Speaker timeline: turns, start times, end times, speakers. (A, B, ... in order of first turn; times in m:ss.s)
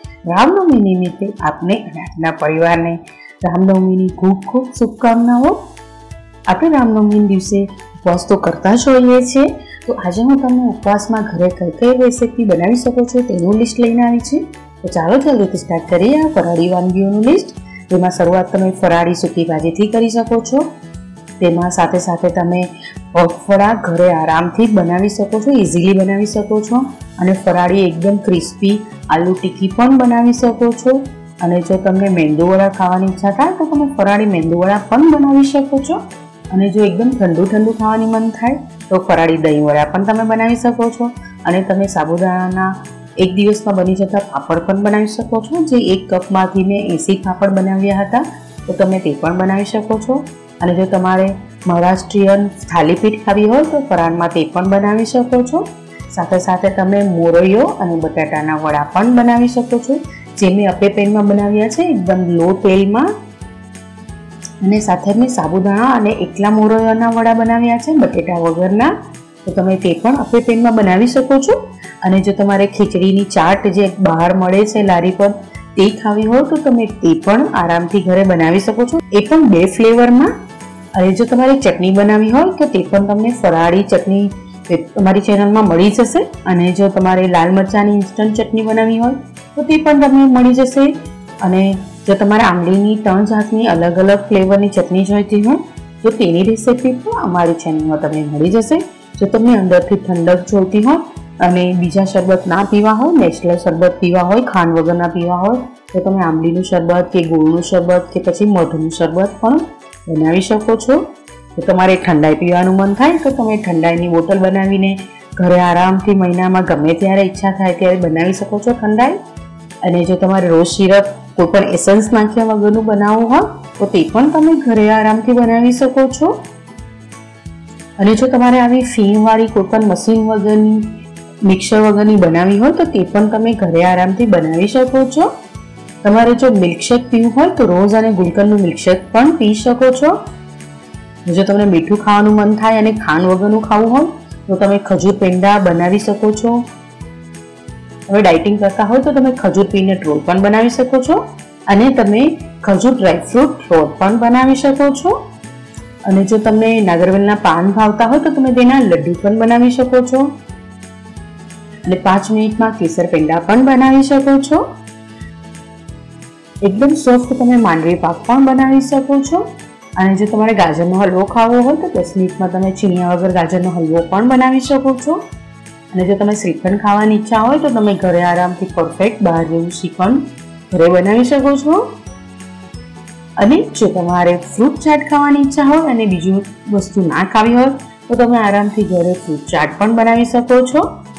0:00.3-0:05.6 A
0:06.5-0:20.7 A
0:21.4-1:03.1 A
1:04.6-1:08.9 A
1:09.4-1:20.3 A
1:20.9-1:59.2 A
1:59.8-2:06.4 A
2:08.0-2:15.3 A
2:16.0-2:20.2 A
2:21.2-2:26.6 A
2:28.1-2:35.2 A
2:36.0-2:40.3 A
2:41.8-2:44.6 A
2:46.6-2:55.2 A
2:55.9-3:01.8 A
3:03.4-3:10.9 A